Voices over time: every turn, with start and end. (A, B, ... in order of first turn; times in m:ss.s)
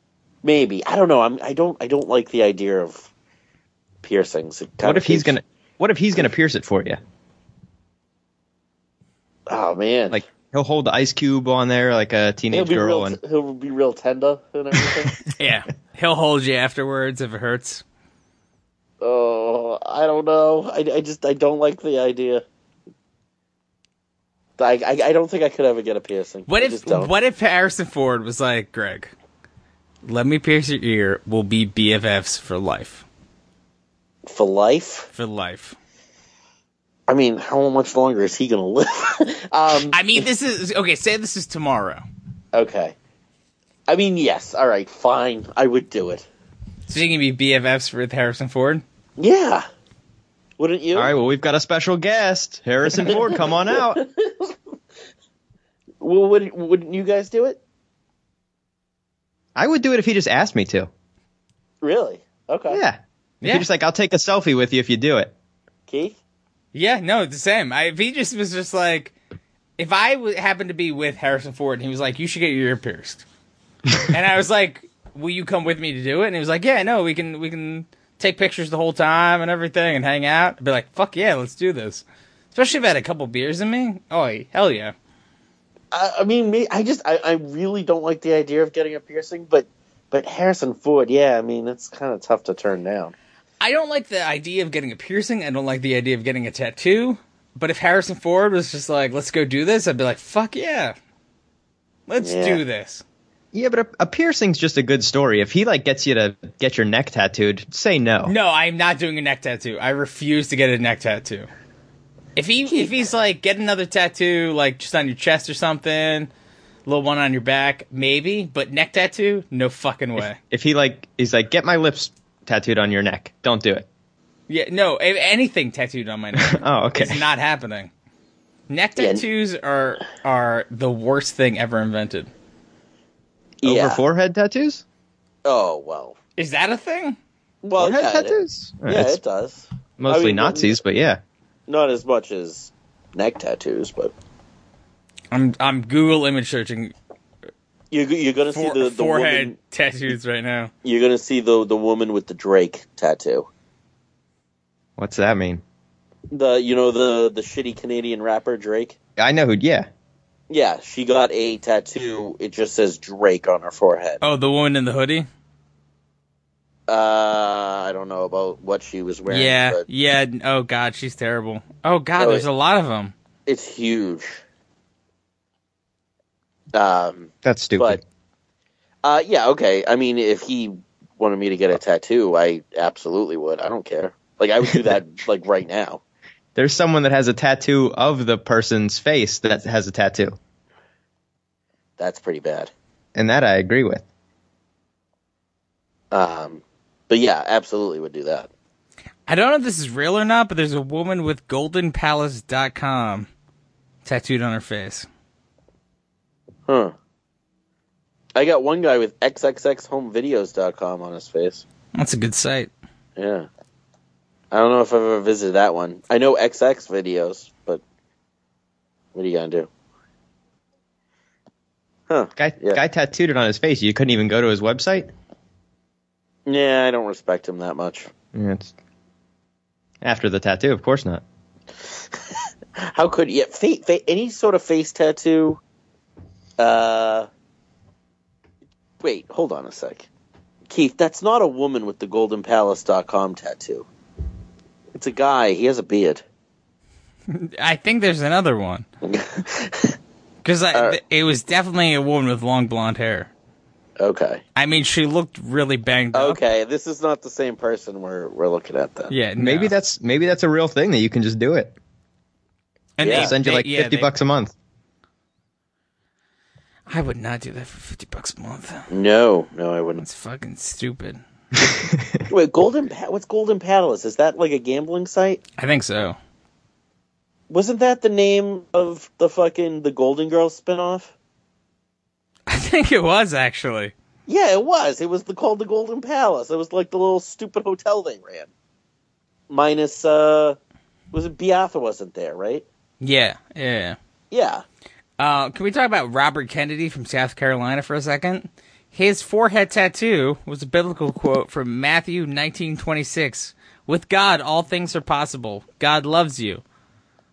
0:00.4-0:03.1 A
0:04.0-0:05.4 A
0:04.8-0:07.0 B
0:09.5-0:10.2 A
0:10.1-0:13.2 B
0:12.5-0:15.2 A
0:15.4-0:17.8 C
0:19.0-0:22.4 A
0:24.6-0:27.1 A
0:26.5-0:29.1 C
0:30.0-0:33.0 C
0:34.3-0:35.1 A
0:35.1-0:35.8 C
0:37.1-0:40.2 A
0:39.9-0:42.0 C
0:42.5-0:43.0 A
0:43.9-0:46.3 A
0:46.9-0:48.8 C
0:49.2-0:49.7 A
0:50.6-0:51.1 A
0:50.9-0:54.0 B
0:53.0-0:54.5 A
0:56.0-0:57.6 A
0:59.6-1:00.9 B
1:01.8-1:02.8 A
1:02.7-1:05.3 B
1:03.4-1:03.7 C
1:05.9-1:06.2 A
1:06.7-1:09.2 C
1:09.8-1:13.2 C
1:14.1-1:24.9 C
1:25.9-1:33.1 A
1:33.6-1:41.0 C
1:42.1-1:43.0 C
1:42.2-1:42.6 A
1:43.5-1:48.3 B
1:48.2-1:51.5 C
1:52.4-1:56.3 C
1:56.9-2:00.4 C
2:00.2-2:03.9 B
2:04.5-2:07.9 C
2:06.4-2:07.2 B
2:08.7-2:12.3 C
2:09.0-2:09.2 A
2:13.6-2:14.0 A
2:13.6-2:14.8 B
2:15.4-2:16.2 A
2:16.4-2:17.2 C
2:17.6-2:20.8 A
2:17.8-2:19.2 B
2:20.0-2:21.2 B
2:21.7-2:24.1 A
2:25.3-2:26.9 C
2:27.9-2:29.6 A
2:28.5-2:30.7 C
2:30.8-2:33.5 A
2:35.0-2:35.6 B
2:36.3-2:39.0 A
2:39.2-2:39.9 B
2:40.5-2:44.2 A
2:44.2-2:45.3 C
2:46.9-2:49.8 A
2:49.3-2:53.1 C
2:52.2-2:52.5 A
2:53.5-2:54.4 A
2:56.7-2:58.0 A
2:57.4-2:58.0 B
2:59.0-3:06.0 A
3:06.6-3:10.4 B
3:12.0-3:12.7 A
3:13.2-3:14.0 B
3:16.1-3:18.5 A
3:19.3-3:23.3 C
3:24.0-3:25.1 C
3:26.7-3:26.9 A
3:28.4-3:31.6 A
3:32.0-3:32.7 C
3:33.2-3:33.5 A
3:34.5-3:37.8 A
3:39.2-3:39.7 A
3:42.1-3:42.8 A
3:42.4-3:45.1 B
3:46.5-3:48.1 A
3:48.3-3:48.7 B
3:50.0-3:51.2 B
3:52.8-3:55.6 A
3:56.6-3:57.3 A
3:59.0-4:00.1 A
4:00.7-4:03.9 A
4:05.0-4:06.2 A
4:07.3-4:08.9 C
4:09.0-4:10.0 A
4:10.4-4:13.3 C
4:14.0-4:14.4 A
4:14.6-4:16.4 C
4:16.1-4:19.1 A
4:19.1-4:19.7 C
4:19.4-4:21.8 B
4:23.0-4:24.1 C
4:23.0-4:23.3 A
4:23.1-4:24.5 B
4:26.9-4:28.9 C
4:28.9-4:30.0 A
4:30.0-4:31.2 C
4:31.6-4:32.2 B
4:32.3-4:35.4 A
4:35.6-4:36.2 C
4:37.5-4:41.1 A
4:42.5-4:43.9 C
4:44.3-4:48.5 A
4:49.5-4:50.6 A
4:51.1-4:52.6 A
4:53.0-4:54.0 C
4:54.3-4:54.6 A
4:55.2-5:06.6 C